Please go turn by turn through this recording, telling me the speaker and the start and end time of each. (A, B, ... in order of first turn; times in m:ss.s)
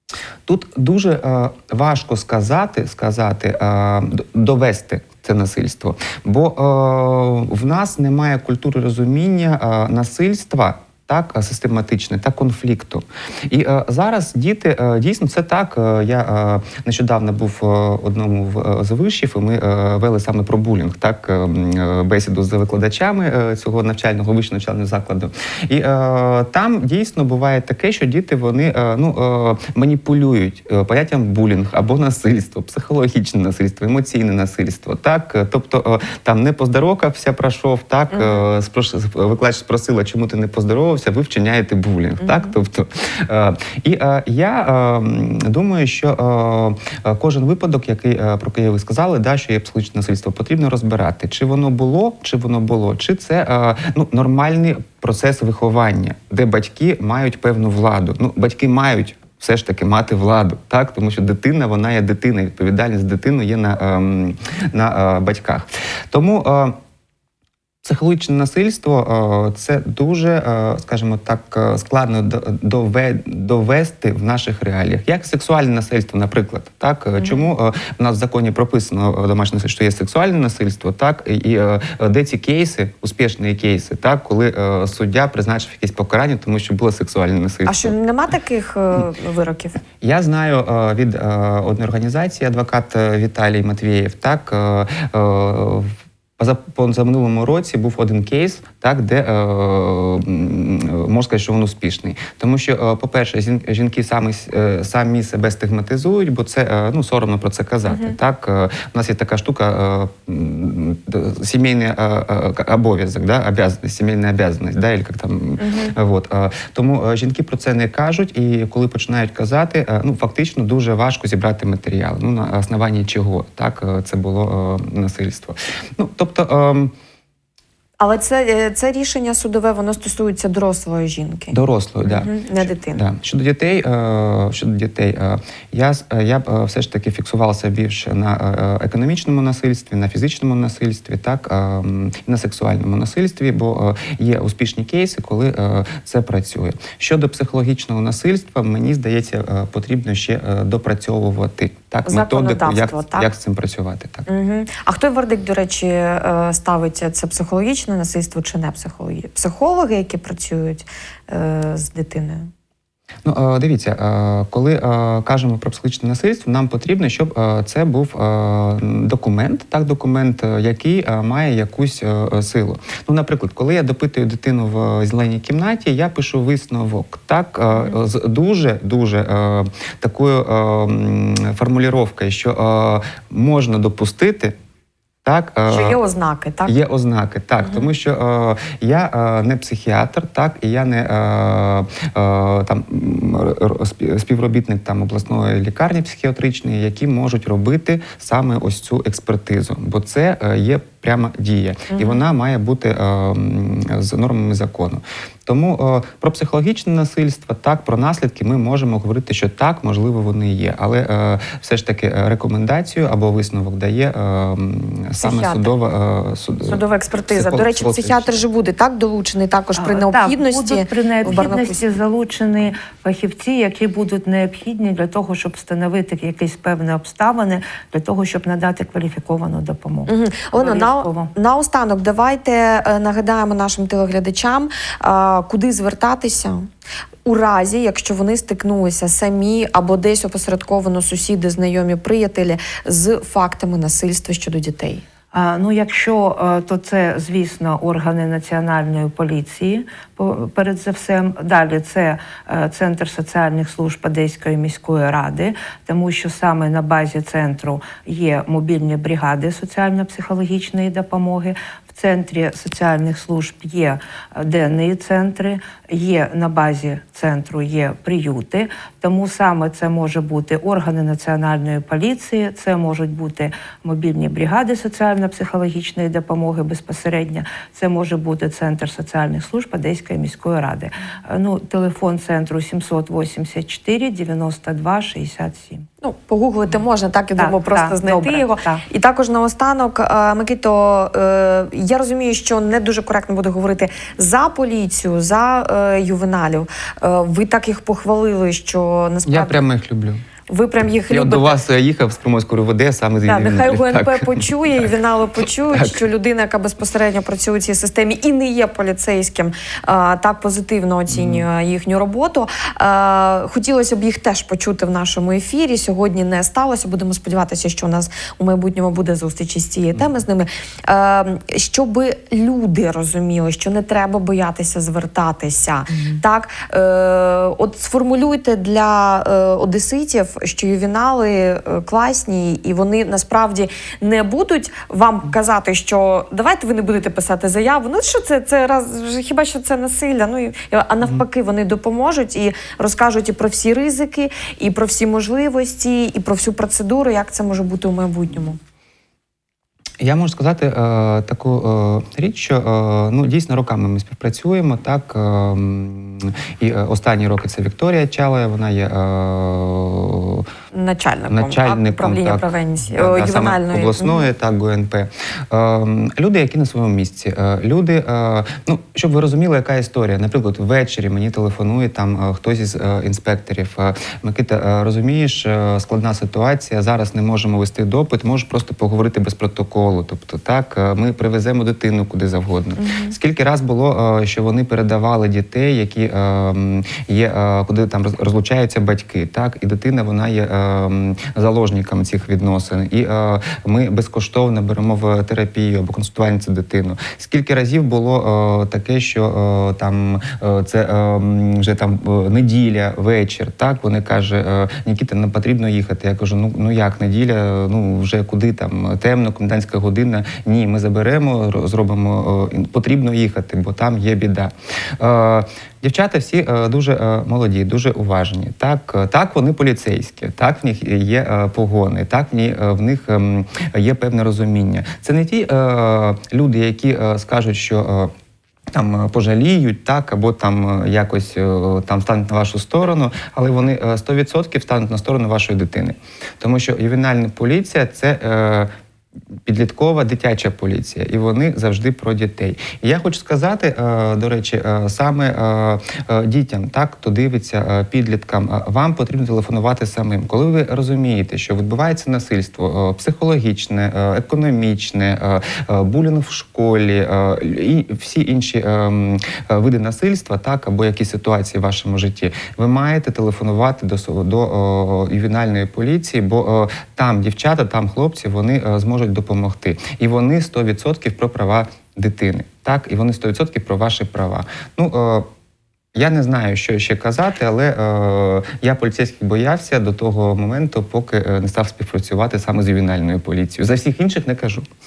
0:00.5-1:06.8 A
0:38.1-0:38.4 B
0:42.2-0:42.5 B
1:07.8-1:27.9 A
1:17.2-1:17.5 B
1:27.6-1:29.8 B
1:30.0-2:06.9 A
1:47.9-1:48.2 B
1:55.6-1:55.9 B
2:08.0-2:13.0 B
2:11.5-2:34.3 A
2:32.1-2:33.3 B
2:34.3-2:42.5 B
2:43.2-3:04.6 A
3:05.2-3:06.0 A
3:05.7-3:06.7 B
3:06.6-3:38.4 A
3:07.6-3:07.9 B
3:21.9-3:22.2 B
3:35.2-3:35.7 B
3:36.7-3:41.8 B
3:39.8-3:51.3 C
3:50.1-3:56.6 B
3:57.2-4:05.0 B
4:05.3-4:45.9 C
4:46.0-4:59.6 B
4:47.4-4:48.8 C
4:59.3-5:00.2 A
5:00.5-5:01.6 B
5:01.1-5:04.8 A
5:03.2-5:48.6 B
5:05.7-5:06.0 A
5:11.1-5:11.5 A
5:50.0-6:00.5 A
6:00.7-6:04.3 B
6:01.3-7:08.1 A
6:22.8-6:23.1 B
7:08.7-7:18.7 A
7:19.5-7:55.3 A
7:55.9-8:04.7 A